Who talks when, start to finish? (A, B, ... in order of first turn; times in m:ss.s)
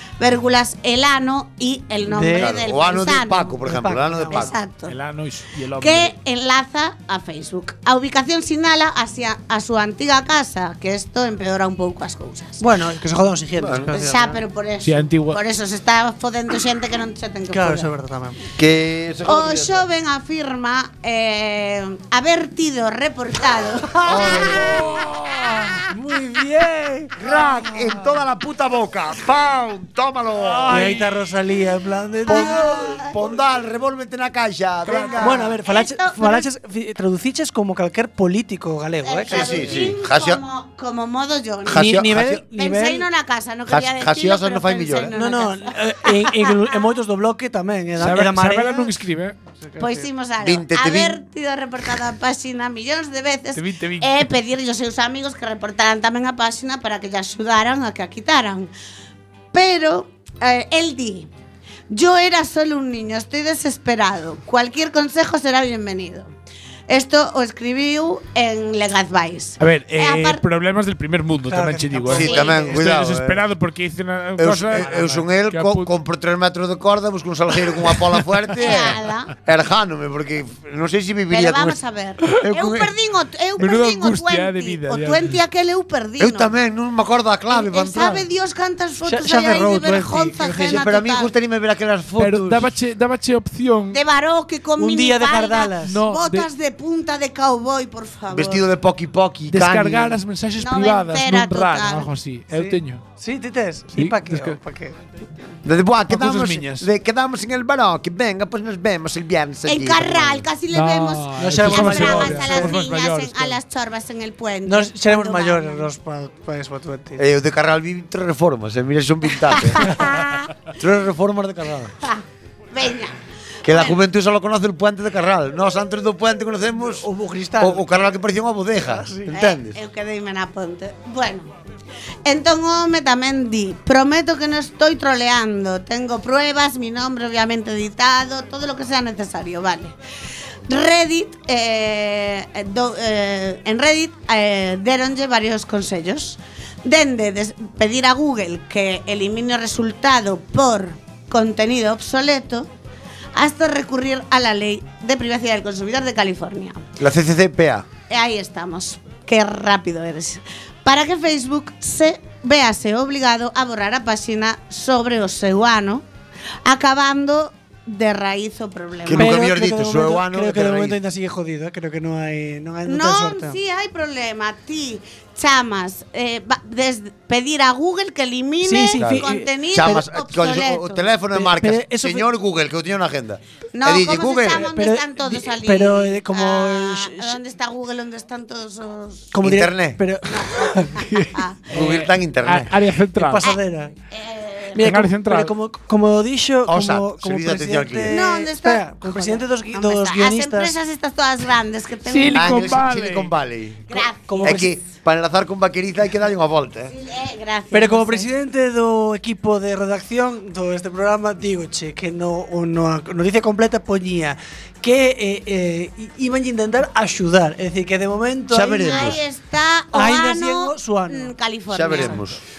0:00.2-0:03.6 A
0:02.0-0:02.6 B
0:02.3-0:04.5 C
0:03.6-0:04.5 B
0:04.3-0:05.0 A
0:04.9-0:06.1 D
0:05.8-0:12.6 A
0:12.6-0:14.4 B
0:13.6-0:13.9 C
0:13.9-0:17.9 A
0:14.8-0:15.4 D
0:17.5-0:18.4 B
0:18.6-0:19.9 C
0:19.2-0:25.0 A
0:24.0-0:25.1 C
0:24.7-0:25.8 D
0:25.8-0:28.0 B
0:27.2-0:30.9 C
0:30.4-0:31.2 D
0:30.7-0:33.0 B
0:32.3-0:35.6 C
0:32.3-0:33.1 A
0:35.0-0:36.5 A
0:35.2-0:39.9 B
0:39.0-0:41.9 A
0:39.3-0:40.4 C
0:41.7-0:42.4 C
0:41.7-0:43.1 B
0:42.5-0:46.7 A
0:43.7-0:45.1 C
0:45.1-0:48.9 B
0:48.0-0:49.4 D
0:49.6-0:50.1 B
0:49.8-0:58.7 A
0:50.4-0:51.2 C
0:53.6-0:54.3 D
0:59.5-1:01.3 A
1:01.9-1:06.3 A
1:06.9-1:10.4 A
1:09.6-1:15.9 D
1:11.5-1:12.9 B
1:12.1-1:13.4 C
1:12.2-1:12.7 A
1:14.4-1:21.8 C
1:18.6-1:19.3 A
1:21.3-1:26.5 A
1:22.3-1:22.9 C
1:23.6-1:25.4 D
1:26.2-1:28.3 C
1:27.5-1:31.3 A
1:29.1-1:30.8 B
1:30.6-1:32.7 C
1:32.2-1:34.0 D
1:33.9-1:38.7 A
1:34.8-1:36.0 B
1:35.8-1:36.5 D
1:38.3-1:40.2 C
1:39.5-1:43.0 D
1:40.6-1:42.1 A
1:42.5-1:45.0 B
1:43.9-1:44.6 D
1:45.6-1:50.5 C
1:46.1-1:46.9 D
1:49.7-1:55.9 A
1:50.7-1:53.6 D
1:51.4-1:52.8 B
1:54.6-1:57.2 B
1:57.2-2:00.0 C
1:59.5-2:00.5 A
2:00.7-2:01.9 C
2:02.0-2:03.2 A
2:03.6-2:07.1 C
2:03.7-2:04.0 A
2:06.7-2:07.9 B
2:07.6-2:09.8 C
2:08.8-2:09.3 B
2:09.3-2:11.5 A
2:12.2-2:20.0 A
2:20.7-2:32.7 A
2:33.3-2:36.8 A
2:37.0-2:37.9 C
2:38.1-2:46.0 A
2:46.6-2:49.4 A
2:49.0-2:51.0 C
2:49.1-2:53.6 B
2:52.8-3:01.1 A
2:58.6-3:00.0 B
2:59.0-3:04.7 C
3:01.3-3:02.3 B
3:03.7-3:09.3 A
3:04.5-3:07.4 B
3:09.3-3:11.0 B
3:09.4-3:10.0 C
3:10.3-3:11.6 A
3:11.0-3:13.5 D
3:11.7-3:12.8 C
3:13.2-3:13.9 B
3:14.1-3:14.9 A
3:14.8-3:20.8 B
3:14.8-3:15.5 D
3:16.7-3:18.2 C
3:18.1-3:22.7 A
3:22.0-3:23.4 D
3:22.3-3:26.9 C
3:23.9-3:24.6 A
3:24.3-3:24.8 B
3:26.9-3:28.3 A
3:27.7-3:39.2 B
3:38.5-3:39.2 C
3:38.8-3:42.2 A
3:39.9-3:41.3 B
3:41.7-3:42.4 C
3:41.9-3:42.2 B